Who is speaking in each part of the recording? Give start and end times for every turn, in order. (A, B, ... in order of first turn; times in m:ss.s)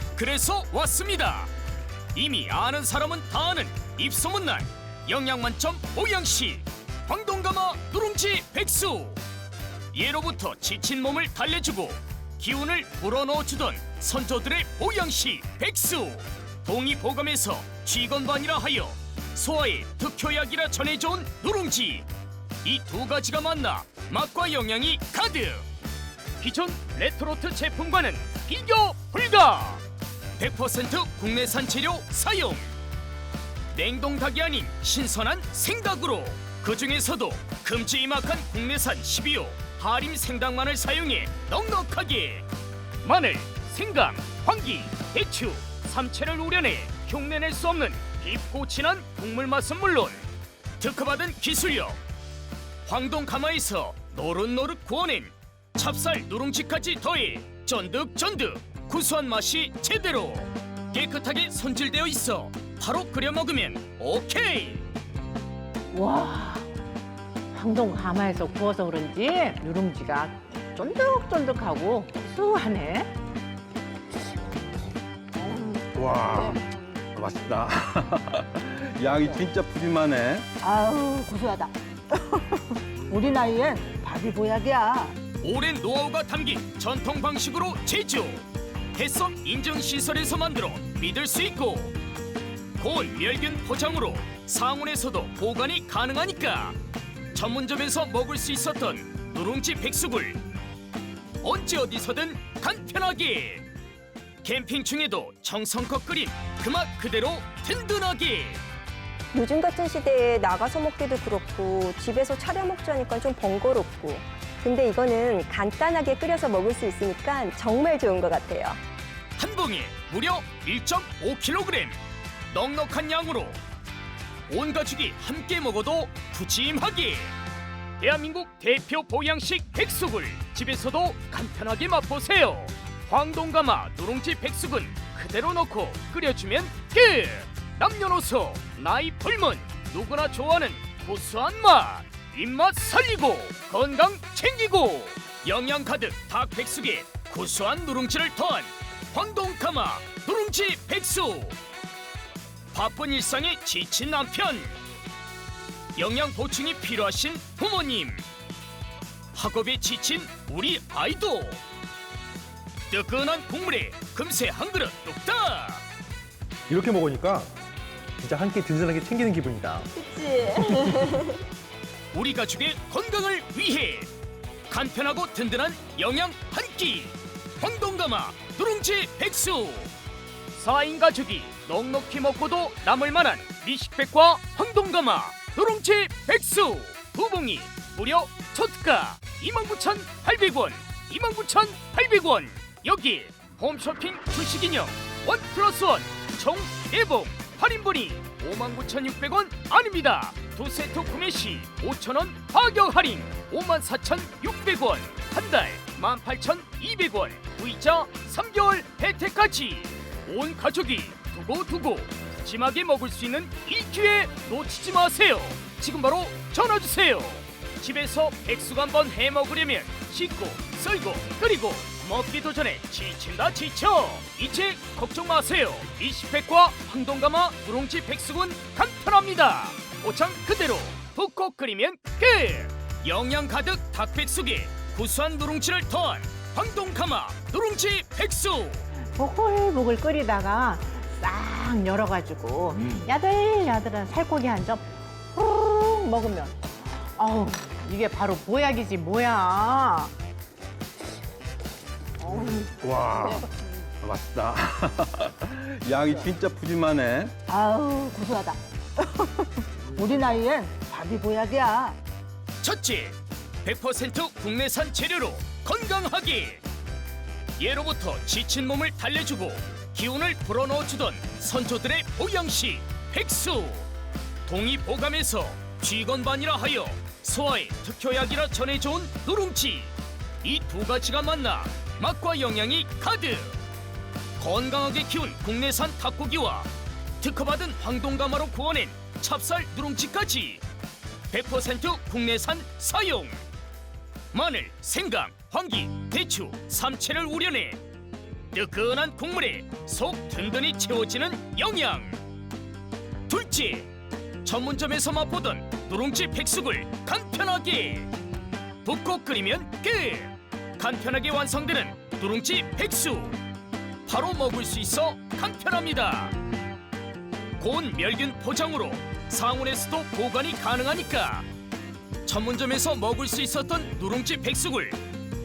0:00.2-0:01.5 A
0:02.1-0:09.2 A
0:09.9-0:22.0 A
0:22.6-0:25.6 A
0:26.4-0:29.8 A
0:30.4-0:32.7 A
0:33.7-0:42.4 A
0:43.0-0:50.2 A
0:50.8-0:52.0 A
0:52.8-1:04.8 A
1:05.9-1:06.7 B
1:07.5-1:13.1 B
1:15.9-1:16.6 C
1:17.1-1:20.4 C
1:20.6-1:25.1 D
1:25.4-1:28.4 A
1:29.0-1:31.9 A
1:32.8-1:36.8 A
1:37.3-1:40.4 A
1:41.4-1:43.6 A
1:44.4-1:48.6 A
1:49.3-1:58.8 E
1:59.4-2:02.0 A
2:02.5-2:03.6 A
2:04.5-2:07.3 A
2:08.0-2:31.6 A
2:32.7-2:34.8 A
2:36.0-2:38.2 A
2:39.3-2:41.6 A
2:42.9-2:45.8 A
2:46.7-2:47.5 F
2:48.2-2:49.9 F
2:49.9-2:51.4 E
2:52.1-2:54.1 A
2:54.7-2:59.9 A
3:00.5-3:58.8 A
3:59.2-4:10.1 B
4:12.2-4:12.7 B
4:12.8-4:13.4 C
4:14.0-4:17.3 C
4:17.5-4:22.0 D
4:22.6-4:26.6 A
4:27.6-4:33.9 A
4:34.4-4:43.6 A
4:44.4-4:46.7 A
4:47.2-4:50.6 A
4:51.3-4:53.4 A
4:54.3-4:57.8 A
4:58.5-5:02.2 A
5:03.3-5:03.9 A
5:04.4-5:08.1 A
5:08.8-5:13.4 A
5:14.1-5:16.3 A
5:17.6-5:21.5 A
5:22.2-5:25.0 A